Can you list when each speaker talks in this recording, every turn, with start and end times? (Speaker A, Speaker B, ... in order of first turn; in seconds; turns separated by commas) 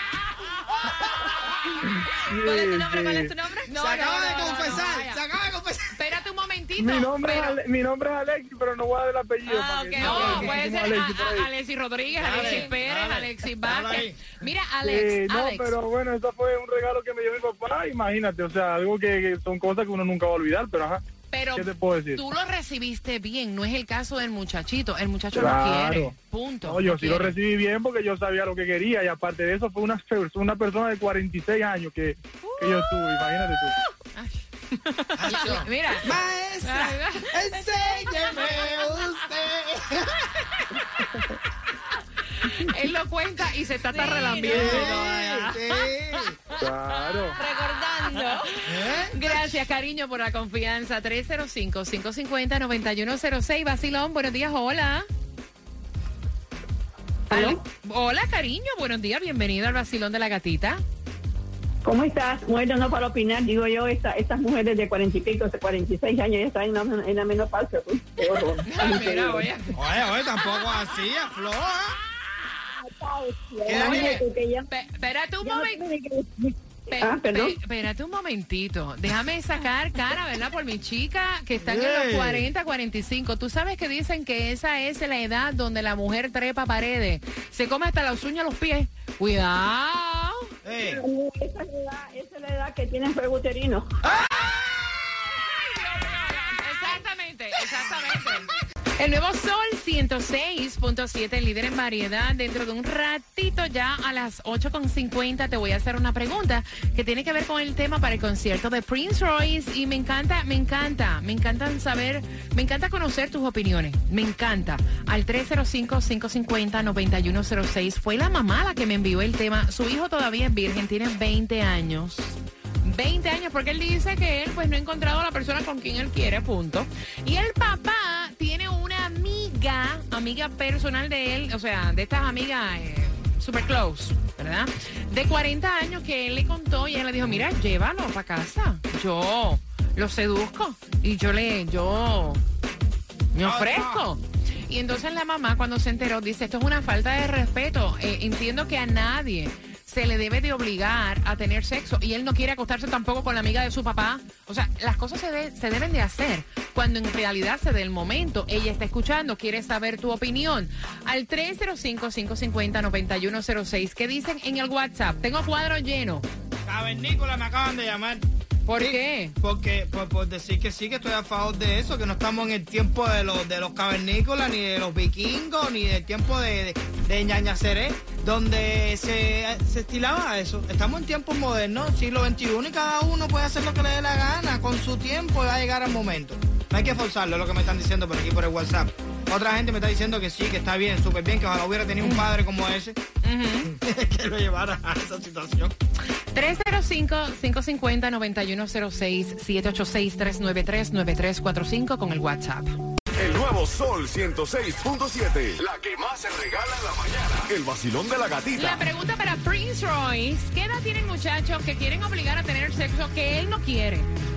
Speaker A: 2.3-3.3, Speaker B: 2.3-4.9, Speaker C: 3.7-5.2, Speaker D: 3.8-5.8, Speaker C: 6.0-7.6, Speaker A: 6.8-11.5, Speaker C: 9.5-15.8, Speaker B: 9.5-10.6, Speaker D: 12.2-14.2, Speaker B: 12.3-12.7, Speaker A: 14.8-21.0, Speaker C: 21.3-27.4, Speaker A: 21.5-22.2, Speaker A: 25.3-26.1, Speaker A: 26.6-33.8, Speaker C: 32.4-32.7, Speaker C: 34.1-36.1, Speaker D: 35.2-40.1, Speaker C: 36.6-37.3, Speaker C: 38.3-38.6, Speaker C: 42.4-45.5, Speaker B: 43.9-44.9, Speaker D: 44.4-46.4, Speaker A: 46.6-47.4, Speaker B: 47.4-48.5, Speaker D: 48.7-49.5, Speaker C: 48.8-55.1, Speaker E: 57.3-57.6, Speaker C: 57.3-60.8, Speaker E: 61.8-69.5, Speaker C: 68.6-70.7, Speaker D: 69.8-72.0, Speaker E: 72.8-74.7, Speaker D: 73.7-74.3, Speaker C: 73.7-75.9, Speaker E: 75.4-77.6, Speaker C: 76.9-90.5, Speaker D: 81.6-82.5, Speaker D: 90.6-91.0, Speaker E: 90.7-93.9, Speaker D: 94.1-94.5, Speaker C: 95.8-142.4, Speaker C: 143.3-166.3, Speaker D: 143.4-144.0, Speaker D: 166.7-168.2, Speaker C: 168.7-169.3, Speaker D: 168.8-193.0, Speaker C: 192.0-192.3, Speaker C: 193.2-193.7, Speaker D: 193.7-195.7, Speaker C: 196.3-202.8, Speaker F: 203.2-208.8, Speaker C: 208.5-214.1